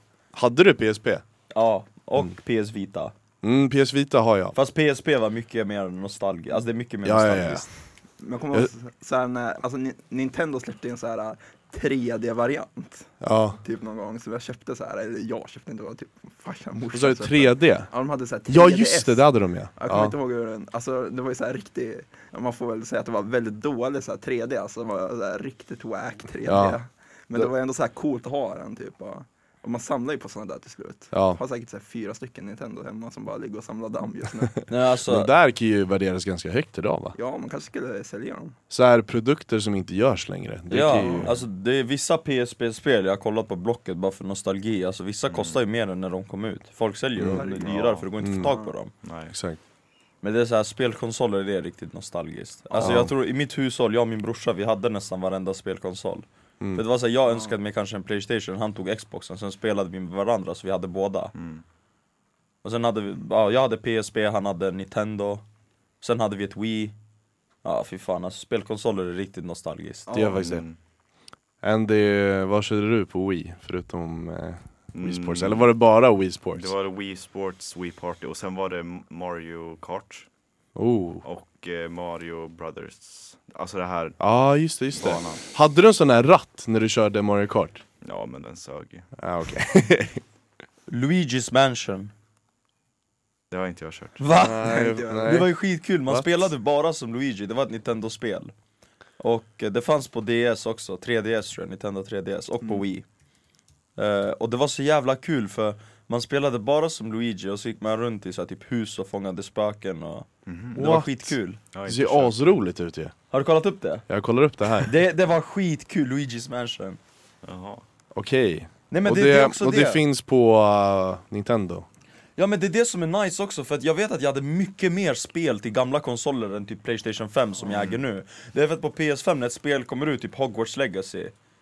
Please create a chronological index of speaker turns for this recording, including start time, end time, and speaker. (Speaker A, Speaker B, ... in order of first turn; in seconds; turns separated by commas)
Speaker A: 0.3-1.2, Speaker B: 1.5-3.1, Speaker A: 3.4-4.5, Speaker B: 4.5-7.7, Speaker A: 7.0-8.0, Speaker C: 8.2-34.7, Speaker A: 13.2-13.6, Speaker A: 16.9-20.1, Speaker A: 26.4-26.8, Speaker A: 31.1-31.4, Speaker B: 34.7-35.3, Speaker A: 35.0-37.1, Speaker C: 37.1-38.5, Speaker A: 38.7-41.3, Speaker B: 40.7-48.9, Speaker D: 41.0-41.4, Speaker D: 45.3-45.6, Speaker A: 47.2-47.5, Speaker C: 47.3-47.7, Speaker D: 47.6-48.0, Speaker A: 48.2-49.6, Speaker C: 48.4-48.7, Speaker D: 49.0-49.3, Speaker B: 50.2-61.3, Speaker A: 52.8-53.1, Speaker D: 61.3-61.6, Speaker B: 62.6-65.5, Speaker B: 66.0-67.0, Speaker B: 67.6-70.1, Speaker C: 70.1-70.4, Speaker A: 70.1-70.7, Speaker D: 70.1-70.8, Speaker A: 71.6-76.7, Speaker D: 74.9-75.8, Speaker D: 76.5-80.3, Speaker A: 80.7-81.2, Speaker D: 81.2-85.4, Speaker A: 84.2-87.8, Speaker D: 88.0-89.1, Speaker A: 89.2-90.2, Speaker B: 90.9-92.1, Speaker D: 93.5-94.2, Speaker B: 94.2-98.5, Speaker A: 94.3-96.5, Speaker C: 94.6-95.5, Speaker B: 99.2-103.1, Speaker B: 103.9-111.6, Speaker D: 110.5-110.8, Speaker A: 110.7-113.4, Speaker D: 111.7-112.4, Speaker B: 113.3-114.3, Speaker A: 114.1-114.9, Speaker B: 114.8-117.0, Speaker D: 117.4-117.8, Speaker A: 118.1-121.8, Speaker B: 118.9-120.0, Speaker B: 122.3-131.3, Speaker D: 127.6-128.0